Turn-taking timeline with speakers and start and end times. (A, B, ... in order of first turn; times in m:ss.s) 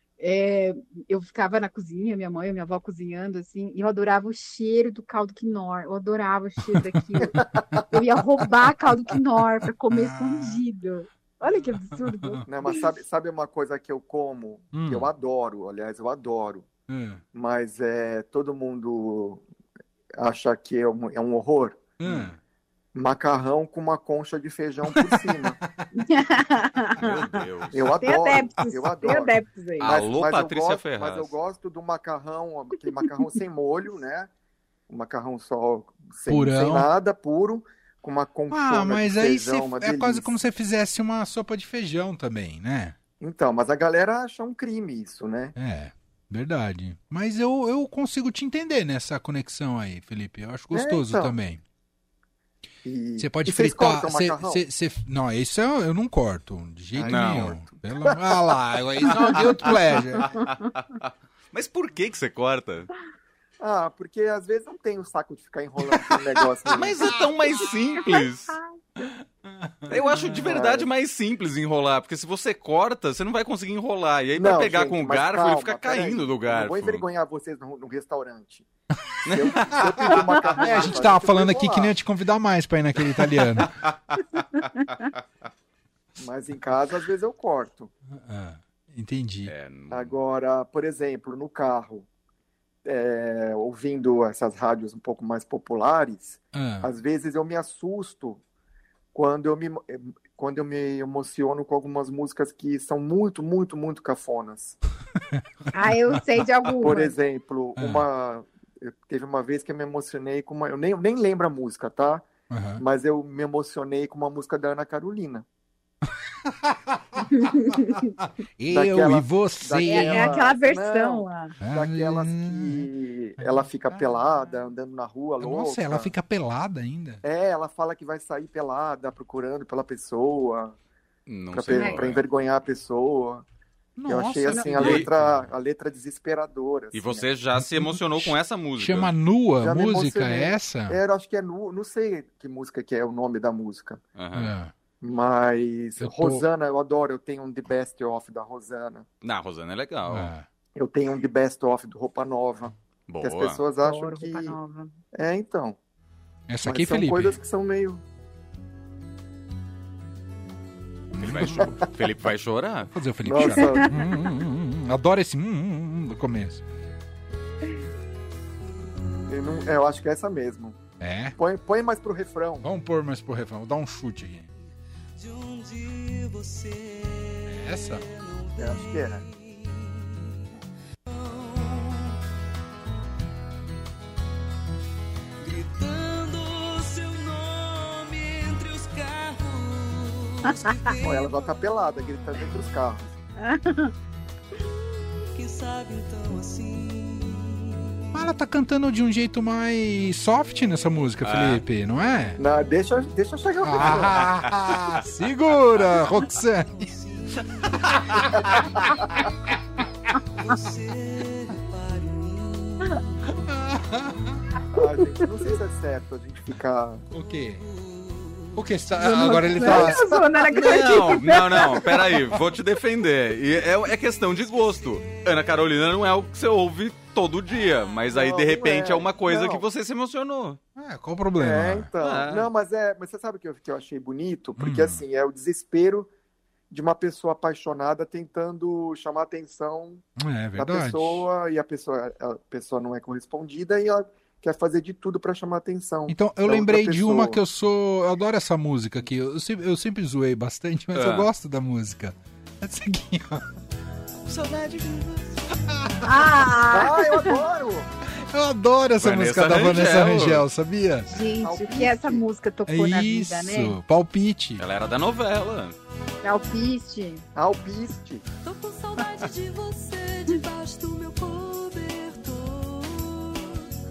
0:00.2-0:07.4 A
0:06.7-0:07.0 B
0:07.3-0:07.8 C
0:07.9-0:12.8 A
0:09.9-0:10.6 B
0:11.4-0:12.4 B
0:12.4-0:16.7 C
0:14.7-0:15.1 B
0:16.9-0:17.2 B
0:17.3-0:19.4 C
0:20.2-0:22.3 C
0:22.0-0:22.4 B
0:22.9-0:25.6 C
0:24.9-0:25.5 B
0:25.9-0:27.4 A
0:27.0-0:28.1 D
0:27.7-0:34.3 C
0:28.0-0:29.9 A
0:29.8-0:31.3 D
0:34.9-0:40.3 C
0:36.3-0:36.9 B
0:38.5-0:43.0 B
0:43.2-0:45.5 C
0:45.6-0:51.6 B
0:50.7-0:51.3 C
0:52.8-0:54.6 C
0:53.2-1:00.4 B
0:56.9-0:58.5 C
0:57.0-0:57.6 D
0:59.0-0:59.3 C
1:00.8-1:02.9 D
1:03.6-1:07.1 C
1:06.0-1:06.4 B
1:06.7-1:08.6 D
1:08.1-1:08.7 A
1:09.0-1:10.4 B
1:09.9-1:17.0 D
1:10.4-1:10.9 C
1:14.4-1:18.7 C
1:19.2-1:19.8 D
1:19.3-1:21.9 C
1:20.0-1:23.8 B
1:24.5-1:25.1 A
1:26.2-1:27.9 C
1:28.1-1:29.5 B
1:29.4-1:30.1 D
1:29.9-1:32.1 C
1:32.8-1:38.4 C
1:36.5-1:36.9 B
1:39.1-1:44.8 C
1:45.7-1:47.1 A
1:46.8-1:52.2 C
1:47.8-1:48.1 B
1:52.5-1:52.8 B
1:52.8-1:55.4 C
1:56.4-1:57.4 B
1:57.3-1:58.1 A
1:58.0-2:00.4 B
1:58.7-2:06.1 C
1:59.8-2:01.5 A
2:01.6-2:02.9 B
2:03.4-2:04.2 B
2:05.4-2:07.2 B
2:07.2-2:10.8 C
2:11.3-2:12.2 D
2:11.5-2:13.4 C
2:11.7-2:12.0 A
2:14.0-2:15.5 B
2:14.1-2:17.2 C
2:14.5-2:14.8 A
2:14.8-2:15.1 D
2:16.9-2:19.1 D
2:17.6-2:21.0 B
2:19.6-2:24.0 C
2:24.2-2:24.5 D
2:24.3-2:24.7 B
2:25.0-2:29.0 C
2:26.0-2:26.4 B
2:29.2-2:30.3 D
2:30.1-2:30.4 B
2:30.8-2:34.6 C
2:33.1-2:33.6 D
2:33.8-2:34.9 A
2:35.1-2:35.8 C
2:36.5-2:37.4 B
2:36.6-2:38.0 C
2:41.1-2:41.8 B
2:41.2-2:42.9 D
2:41.5-2:41.8 C
2:42.9-2:46.6 B
2:43.2-2:44.0 C
2:43.4-2:44.0 A
2:49.3-2:50.8 C
2:51.0-2:51.4 B
2:51.4-2:52.7 C
2:52.6-2:54.5 B
2:55.2-3:02.2 E
2:57.5-2:58.0 B
2:58.6-2:59.2 C
3:05.4-3:11.3 E
3:11.0-3:13.1 C
3:13.4-3:13.9 A
3:15.3-3:18.0 E
3:18.1-3:22.4 B
3:21.2-3:21.6 D
3:22.4-3:24.4 C
3:23.6-3:26.9 B
3:26.0-3:29.3 E
3:30.3-3:33.3 E
3:33.3-3:34.4 B
3:34.7-3:37.0 C
3:37.1-3:37.6 B
3:37.7-3:38.6 E
3:38.5-3:40.1 B
3:39.0-3:41.9 A
3:39.6-3:40.0 C
3:40.5-3:50.6 D
3:44.8-3:45.5 E
3:48.1-3:49.6 C
3:50.8-3:51.9 B
3:51.4-3:56.1 C
3:52.0-3:52.5 D
3:54.6-3:55.0 B
3:56.7-4:00.0 C
4:00.2-4:01.3 B
4:00.6-4:07.4 C
4:06.1-4:13.5 B
4:10.9-4:11.3 D
4:14.2-4:15.3 D
4:15.0-4:15.5 E
4:15.7-4:16.0 B
4:16.0-4:17.4 A
4:16.7-4:17.9 C
4:18.1-4:21.1 B
4:19.0-4:20.4 D
4:21.1-4:23.8 A
4:21.4-4:22.2 C
4:22.7-4:24.6 B
4:24.6-4:25.8 D
4:26.2-4:27.2 A
4:27.3-4:28.2 C
4:28.4-4:33.7 E